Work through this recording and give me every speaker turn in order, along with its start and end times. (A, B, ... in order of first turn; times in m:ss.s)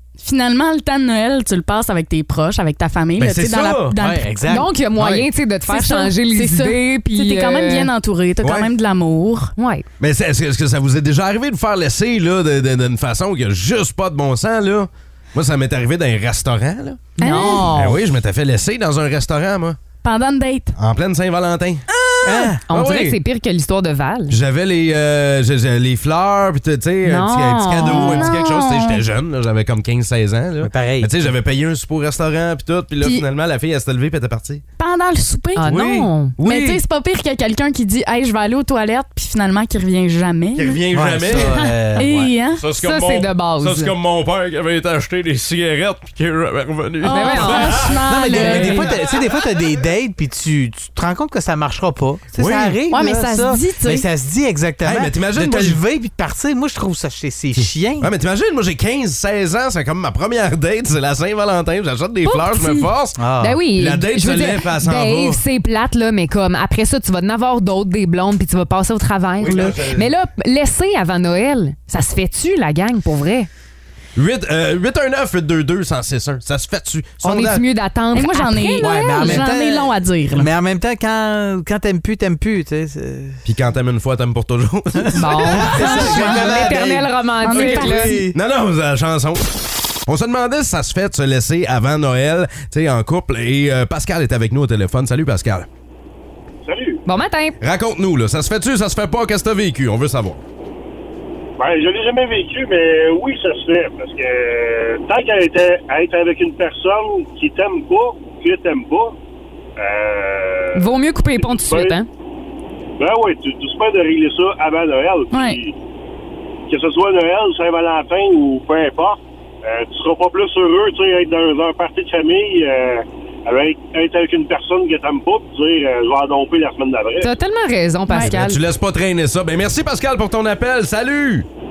0:00.2-0:04.4 A
0:03.2-0:03.9 B
0:03.9-0:05.2 C
0:04.4-0:07.9 D
0:05.7-0:09.5 A
0:08.4-0:08.7 B
0:09.6-0:09.8 D
0:10.0-0:17.1 B
0:17.2-0:17.7 A
0:17.2-0:18.0 D
0:17.7-0:19.8 B
0:20.0-0:20.7 A
0:20.8-0:21.8 B
0:22.2-0:22.6 C
0:22.4-0:23.2 B
0:22.7-0:24.4 D
0:24.3-0:34.6 B
0:27.0-0:28.3 D
0:27.8-0:29.0 A
0:30.6-0:31.3 C
0:34.8-0:35.8 A
0:35.5-0:36.3 D
0:35.6-0:36.8 B
0:36.4-0:40.8 A
0:40.6-0:49.2 B
0:40.9-0:42.3 C
0:41.4-0:41.7 D
0:42.0-0:42.6 A
0:42.7-0:43.9 D
0:47.0-0:49.0 A
0:47.0-0:48.8 D
0:48.0-0:58.1 C
0:52.3-0:52.8 B
0:52.9-0:54.1 A
0:54.8-0:55.8 B
0:57.6-1:05.4 B
1:02.2-1:13.5 D
1:03.2-1:03.6 C
1:09.4-1:10.1 B
1:14.2-1:17.6 B
1:17.2-1:19.5 D
1:18.1-1:20.5 A
1:18.8-1:23.4 C
1:23.4-1:25.9 B
1:25.0-1:28.3 C
1:25.1-1:28.2 D
1:25.7-1:26.6 A
1:27.4-1:28.3 A
1:28.3-1:35.7 B
1:36.6-1:37.0 E
1:37.0-1:37.6 D
1:37.6-1:40.4 B
1:41.6-1:49.2 E
1:49.8-1:52.0 E
1:50.7-1:52.1 D
1:53.0-1:55.7 E
1:55.3-1:55.6 A
1:56.7-2:07.3 E
2:07.2-2:08.6 D
2:08.1-2:08.4 A
2:08.3-2:11.5 B